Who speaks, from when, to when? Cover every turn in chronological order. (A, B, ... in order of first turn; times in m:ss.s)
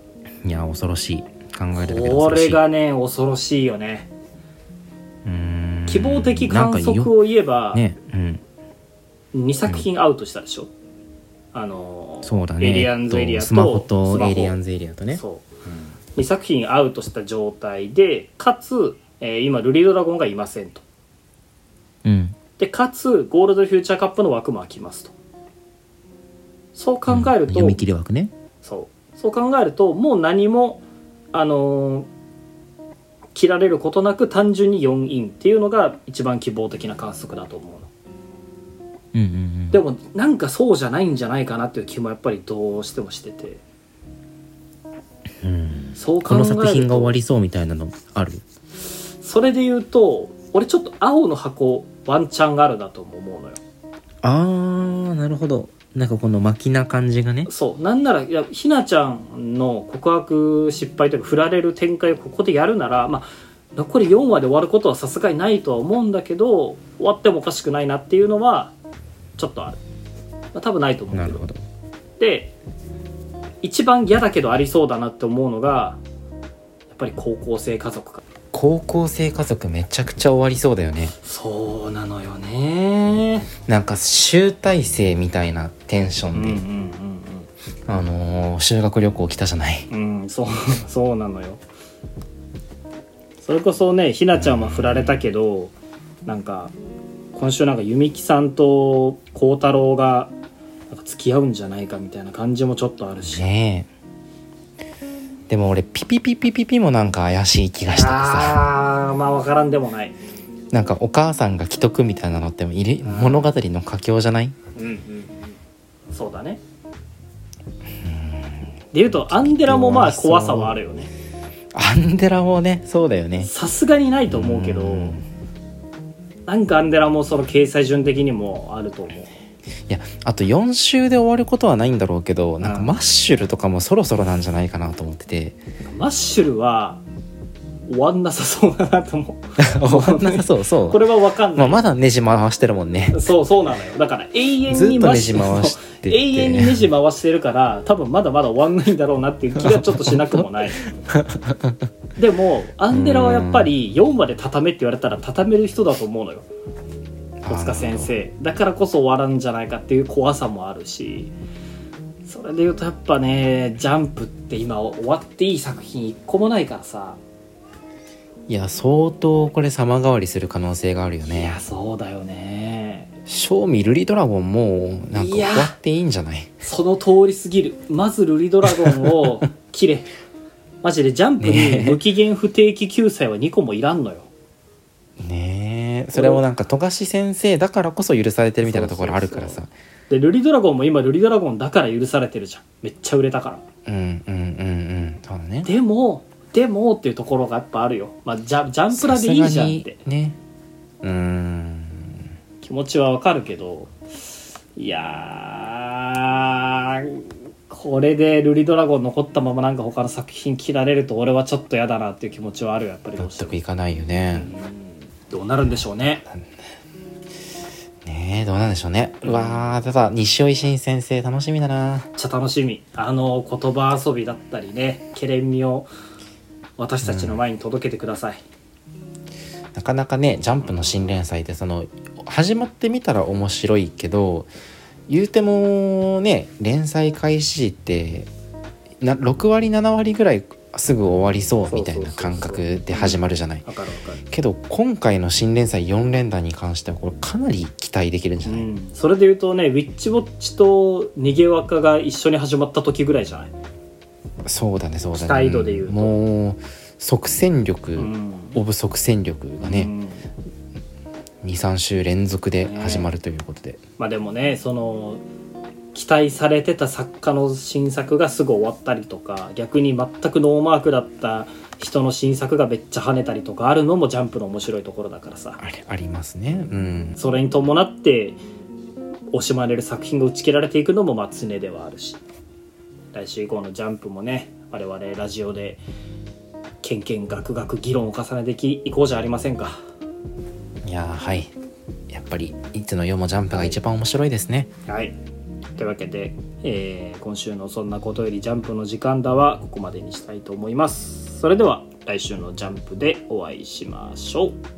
0:00.4-0:02.6 A
0:01.7-0:04.1 B
0:05.2-0:07.1 A
0:05.9-0:07.8 B
0:07.7-0:08.4 A
0:09.3-0:10.7 B
0:11.5-0:14.6 B
0:12.2-0:15.2 A
0:15.1-0:15.5 B
0:16.1-0:20.8 B
0:22.0-0:22.4 A
0:22.6-0:25.1 B
0:26.7-0:27.8 B
0:27.1-0:28.3 A
0:28.6-0:32.1 B
0:33.3-0:37.9 B
0:39.1-0:39.8 A
0:39.7-0:43.6 B
0:45.4-0:48.4 A
0:46.0-0:47.1 B
0:49.2-0:53.6 B
0:54.2-0:57.5 A
0:57.5-1:08.8 B
1:09.4-1:09.8 B
1:10.5-1:11.5 B
1:11.1-1:11.6 A
1:12.2-1:12.5 B
1:13.6-1:16.0 B
1:16.9-1:18.2 B
1:18.5-1:21.2 A
1:21.2-1:23.5 B
1:23.6-1:26.6 A
1:26.3-1:27.5 B
1:27.8-1:29.9 A
1:29.9-1:31.6 B
1:33.4-1:35.7 B
1:34.4-1:35.2 A
1:36.2-1:36.7 B
1:37.3-1:40.3 B
1:40.9-1:43.4 B
1:43.2-1:43.9 A
1:45.5-1:48.7 A
1:47.9-1:50.2 B
1:50.7-1:54.6 A
1:53.0-1:53.5 B
1:54.7-1:55.5 B
1:56.1-1:56.6 B
1:58.0-2:00.8 A
1:58.9-2:01.1 B
2:01.7-2:03.5 A
2:03.4-2:05.2 B
2:04.3-2:05.2 A
2:06.5-2:09.3 B
2:09.9-2:15.6 A
2:12.6-2:12.9 B
2:15.9-2:17.0 B
2:17.9-2:21.8 B
2:19.6-2:21.0 A
2:21.5-2:23.2 A
2:23.1-2:30.9 B
2:24.7-2:26.8 A
2:29.6-2:30.4 A
2:31.0-2:31.8 A
2:32.2-2:36.5 B
2:32.9-2:33.7 A
2:37.4-2:38.1 A
2:37.5-2:41.3 B
2:42.2-2:47.2 B
2:48.5-2:51.6 A
2:51.2-2:53.1 B
2:53.3-2:56.5 A
2:55.1-2:55.8 B
2:56.6-3:00.1 B
2:58.8-2:59.3 A
3:00.8-3:04.3 B
3:01.4-3:02.0 A
3:05.2-3:09.7 A
3:06.1-3:06.4 B
3:08.6-3:13.6 B
3:13.8-3:15.7 A
3:15.6-3:20.0 B
3:18.9-3:20.4 A
3:21.0-3:22.2 A
3:22.6-3:23.9 B
3:24.8-3:33.6 B
3:33.2-3:34.5 A
3:34.3-3:36.2 B
3:38.0-3:42.1 A
3:39.2-3:39.7 B
3:42.2-3:45.9 B
3:46.8-3:48.4 B
3:47.0-3:47.4 A
3:49.7-3:54.5 A
3:50.6-3:51.1 B
3:55.1-3:58.3 A
3:59.0-4:03.6 A
4:01.7-4:04.2 B
4:04.2-4:08.7 A
4:08.4-4:13.5 B
4:14.4-4:19.9 A
4:15.1-4:16.2 B
4:18.0-4:18.6 B
4:19.6-4:20.3 B
4:21.4-4:23.8 A
4:22.6-4:23.1 B
4:24.0-4:25.2 B
4:25.9-4:35.6 B
4:35.6-4:37.2 A
4:37.2-4:38.4 B
4:39.3-4:42.2 B
4:43.1-4:45.8 B
4:46.8-4:49.8 B
4:50.8-4:51.5 A
4:52.1-4:54.7 A
4:54.9-4:55.2 B
4:55.8-5:04.6 B